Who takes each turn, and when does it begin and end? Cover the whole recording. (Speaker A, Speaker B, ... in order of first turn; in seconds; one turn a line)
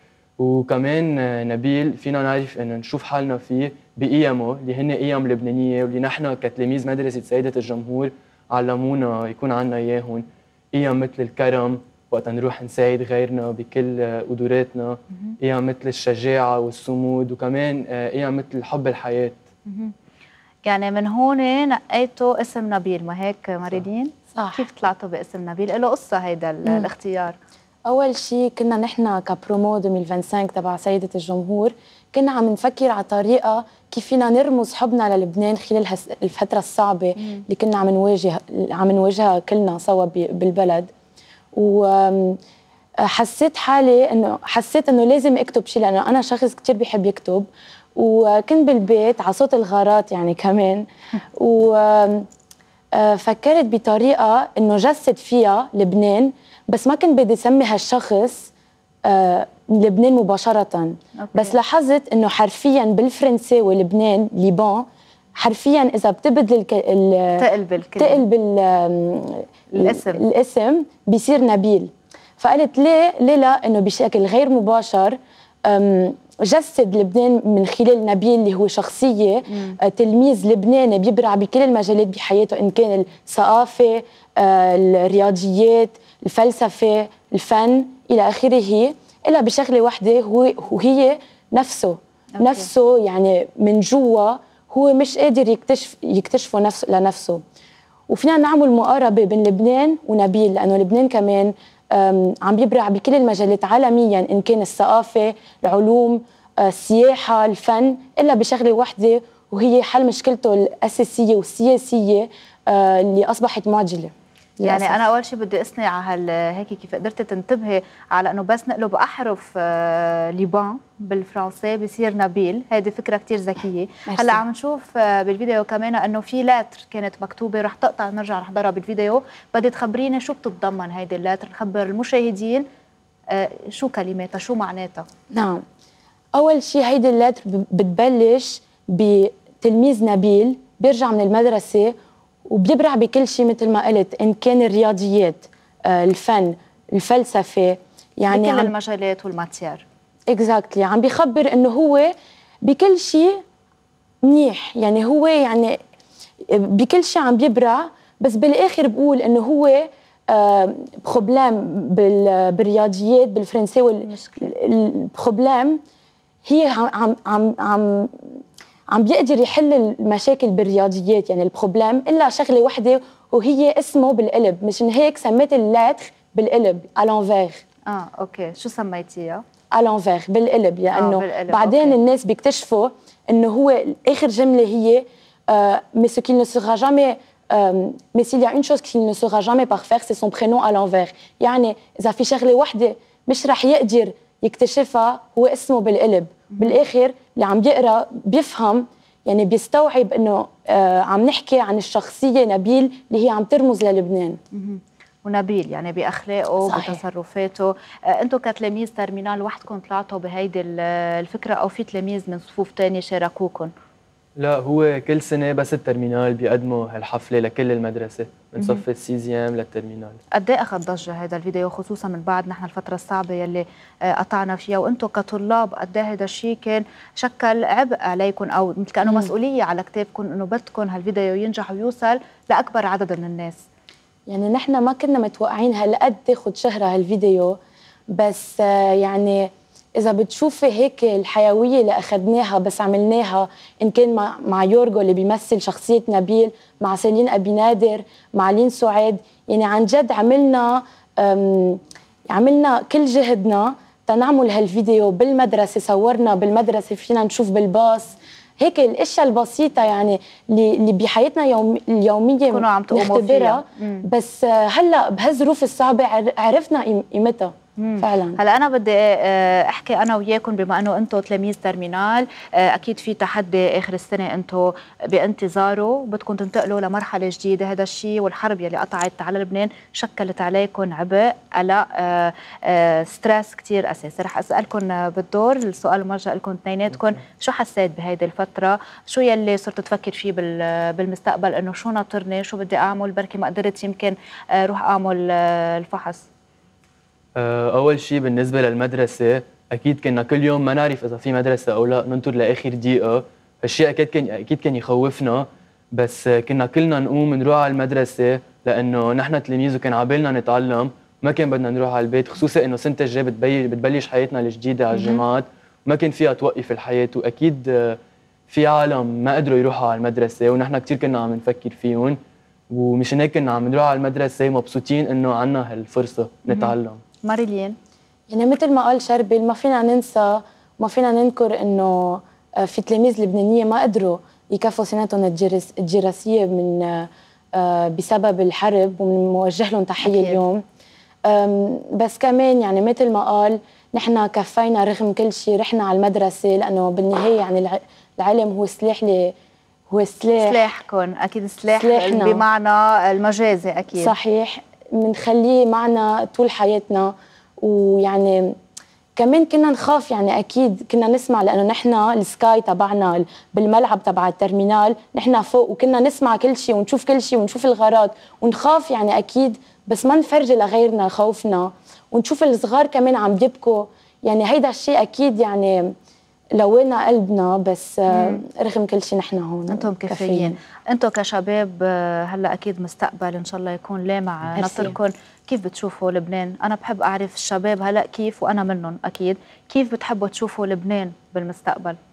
Speaker A: 0.4-19.4
Speaker B: 19.7-19.9
Speaker B: 20.6-27.4
Speaker C: 24.4-24.7
Speaker C: 26.6-26.9
Speaker C: 27.9-40.9
Speaker C: 41.5-42.4
Speaker C: 43.0-50.9
Speaker C: 51.4-52.3
Speaker C: 53.0-58.5
Speaker C: 59.0-64.9
Speaker B: 61.2-61.6
Speaker C: 65.4-67.5
Speaker B: 67.4-68.2
Speaker C: 68.0-97.4
Speaker B: 69.7-70.2
Speaker B: 79.5-79.8
Speaker B: 92.4-92.7
Speaker C: 98.1-115.0
Speaker B: 114.6-132.7
Speaker C: 124.1-124.4
Speaker B: 133.3-135.1
Speaker C: 135.3-135.6
Speaker C: 136.4-141.9
Speaker C: 142.5-148.7
Speaker B: 148.3-149.8
Speaker C: 150.3-152.1
Speaker C: 152.6-153.4
Speaker C: 154.2-155.8
Speaker C: 156.5-165.8
Speaker B: 164.1-164.5
Speaker C: 166.4-168.2
Speaker C: 168.9-177.6
Speaker B: 177.9-179.4
Speaker C: 179.7-204.4
Speaker B: 180.9-182.0
Speaker B: 204.5-213.7
Speaker C: 206.6-207.0
Speaker A: 214.4-220.2
Speaker B: 220.3-233.6
Speaker C: 229.0-229.3
Speaker C: 234.3-237.6
Speaker C: 238.1-268.4
Speaker B: 262.5-264.1
Speaker B: 267.8-296.3
Speaker A: 297.4-318.0
Speaker B: 314.9-315.2
Speaker A: 318.5-322.2
Speaker A: 322.7-327.0
Speaker B: 326.5-327.8
Speaker C: 328.3-340.6
Speaker B: 340.0-340.4
Speaker C: 341.3-349.3
Speaker C: 349.9-350.6
Speaker B: 350.4-354.1
Speaker C: 351.7-352.4
Speaker C: 353.9-358.6
Speaker C: 359.1-375.9
Speaker C: 376.6-380.6
Speaker B: 378.1-378.4
Speaker B: 379.7-392.0
Speaker C: 384.5-385.0